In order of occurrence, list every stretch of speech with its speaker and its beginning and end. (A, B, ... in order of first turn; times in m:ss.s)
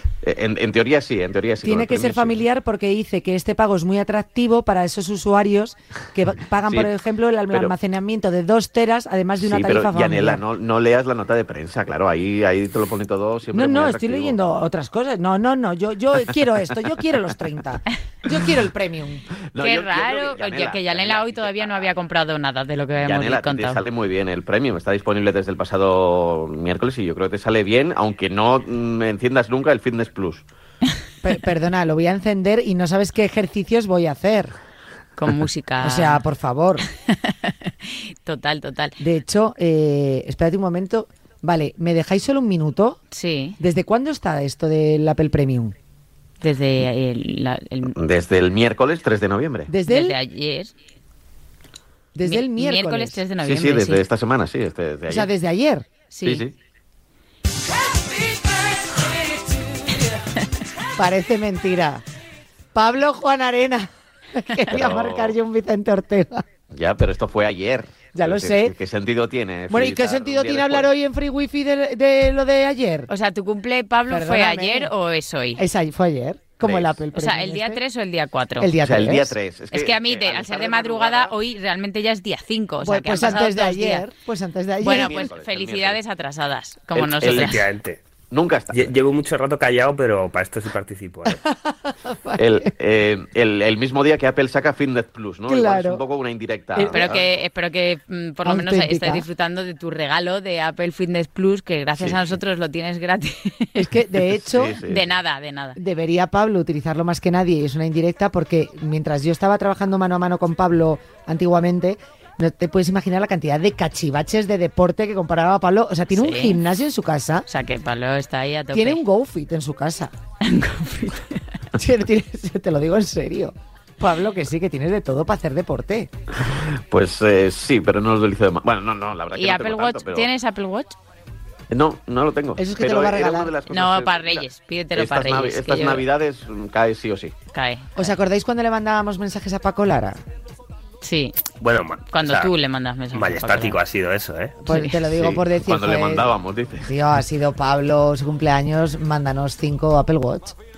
0:00.2-0:02.4 A
0:01.6-0:10.4 B
0:09.4-0:14.4 A
0:13.5-0:19.3 B
0:19.5-0:21.9 A
0:19.6-0:23.8 C
0:23.0-0:30.4 A
0:31.2-0:34.5 B
0:35.2-0:36.2 C
0:35.8-0:36.8 B
0:37.0-0:39.0 C
0:39.0-0:43.0 B
0:43.1-0:43.6 C
0:43.6-0:45.8 B
0:46.4-0:47.9 C
0:47.9-0:49.7 A
0:49.7-0:50.2 B
0:49.8-0:50.7 C
0:52.1-0:53.2 B
0:52.2-0:54.0 C
0:53.4-0:55.3 A
0:55.1-0:55.9 B
0:56.1-0:56.4 C
0:56.2-0:56.5 A
1:00.9-1:02.0 B
1:02.7-1:06.4 B
1:04.7-1:05.3 A
1:06.7-1:10.9 A
1:08.1-1:08.7 B
1:09.7-1:13.1 B
1:13.1-1:15.6 C
1:14.1-1:14.9 B
1:15.6-1:17.8 B
1:16.6-1:17.0 A
1:17.1-1:18.7 C
1:18.6-1:19.4 B
1:18.8-1:21.3 A
1:19.7-1:24.0 C
1:22.8-1:25.3 B
1:24.8-1:27.6 C
1:24.9-1:26.0 A
1:26.9-1:27.6 A
1:27.2-1:28.0 D
1:28.3-1:28.9 A
1:28.7-1:31.4 D
1:31.2-1:32.7 B
1:32.4-1:37.3 A
1:35.5-1:36.0 B
1:36.7-1:37.2 B
1:36.9-1:43.9 C
1:38.4-1:39.2 B
1:42.0-1:42.4 A
1:43.8-1:44.8 B
1:44.3-1:45.1 A
1:44.7-1:45.8 C
1:45.8-1:57.4 B
1:56.1-1:56.6 C
1:57.5-1:59.0 C
1:58.7-2:00.1 B
2:00.4-2:01.4 C
2:01.7-2:06.1 B
2:06.4-2:10.3 A
2:09.3-2:11.0 C
2:11.7-2:17.3 A
2:12.6-2:13.5 B
2:13.7-2:16.0 C
2:17.5-2:18.1 C
2:18.0-2:20.2 B
2:21.0-2:21.4 C
2:21.6-2:22.5 D
2:22.1-2:23.8 C
2:23.1-2:24.6 D
2:24.6-2:26.3 B
2:24.7-2:24.9 C
2:25.1-2:26.9 A
2:26.8-2:30.6 B